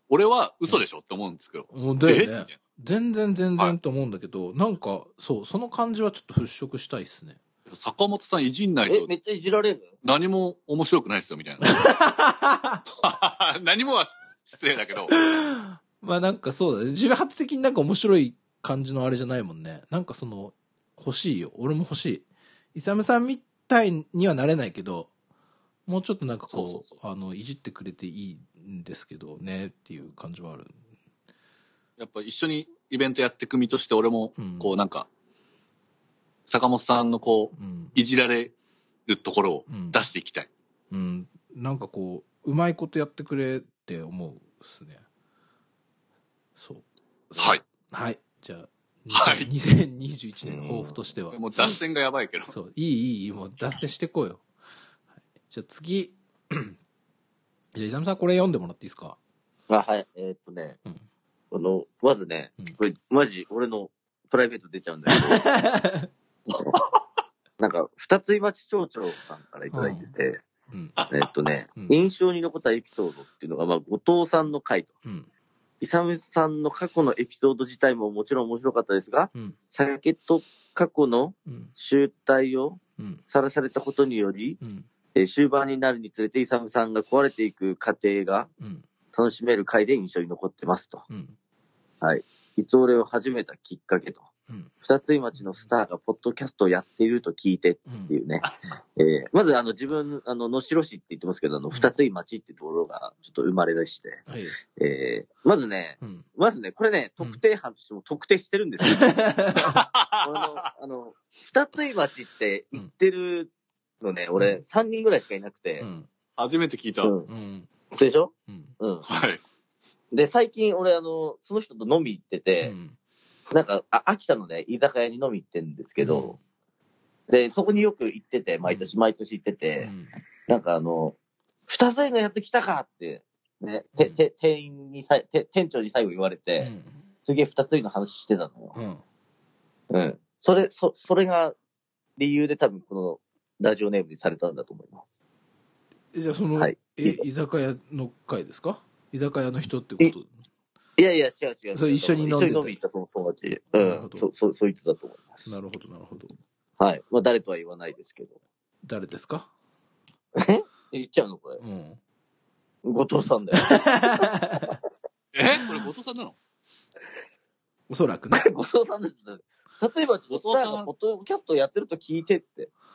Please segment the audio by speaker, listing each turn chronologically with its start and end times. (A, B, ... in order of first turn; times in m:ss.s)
0:00.1-0:02.6 A
0:01.7-0:07.4 B
0:07.7-0:09.1 A
0:08.9-0:09.9 C
0:10.0-0:11.7 A
0:11.6-0:12.8 B
0:13.0-0:15.1 A
0:15.1-0:25.1 B
0:25.9-0:30.8 B
0:26.5-0:26.8 A
0:32.0-0:35.1 A
0:34.4-0:34.7 B
0:36.5-0:38.5 A
0:37.6-0:38.0 B
0:39.1-0:40.5 A
0:39.7-0:40.0 B
0:40.9-0:45.0 B
0:46.6-0:51.4 B
0:49.1-0:49.5 A
0:50.4-0:50.9 C
0:51.3-0:52.5 A
0:52.5-0:54.4 B
0:55.5-0:56.8 B
0:57.7-0:59.2 B
0:59.7-1:00.8 C
1:01.5-1:05.4 C
1:05.1-1:06.1 B
1:07.6-1:10.4 C
1:09.7-1:10.1 B
1:10.7-1:11.0 B
1:11.1-1:14.9 C
1:15.8-1:24.6 C
1:21.5-1:21.7 B
1:24.6-1:24.9 B
1:25.1-1:28.5 C
1:28.6-1:28.8 B
1:29.1-1:31.0 C
1:31.1-1:31.4 B
1:32.0-1:34.2 C
1:34.8-1:38.4 C
1:37.8-1:38.2 B
1:39.0-1:49.2 C
1:44.3-1:44.5 B
1:48.9-1:49.8 B
1:49.7-1:50.6 A
1:50.2-1:55.8 C
1:55.8-1:56.1 B
1:56.4-1:57.1 A
1:57.0-1:57.3 C
1:57.3-1:57.7 B
1:57.9-1:59.0 C
1:58.5-1:58.7 B
1:59.1-1:59.4 A
2:00.1-2:02.7 C
2:02.6-2:03.0 B
2:03.5-2:06.4 C
2:06.0-2:06.4 B
2:07.3-2:09.9 C
2:08.6-2:08.9 B
2:09.8-2:10.1 B
2:10.5-2:11.2 C
2:11.7-2:16.7 C
2:16.6-2:17.0 B
2:17.2-2:18.8 C
2:18.7-2:19.0 B
2:19.9-2:21.5 C
2:22.2-2:25.0 C
2:26.1-2:30.3 B
2:26.6-2:27.2 C
2:31.0-2:35.5 C
2:31.7-2:32.8 B
2:33.7-2:34.2 B
2:35.4-2:36.3 B
2:36.8-2:38.4 C
2:38.8-2:39.5 B
2:40.4-2:41.6 C
2:41.6-2:42.0 B
2:42.8-2:44.7 C
2:43.6-2:44.7 B
2:45.3-2:46.4 A
2:47.9-2:48.4 B
2:48.3-2:52.7 C
2:50.3-2:50.9 A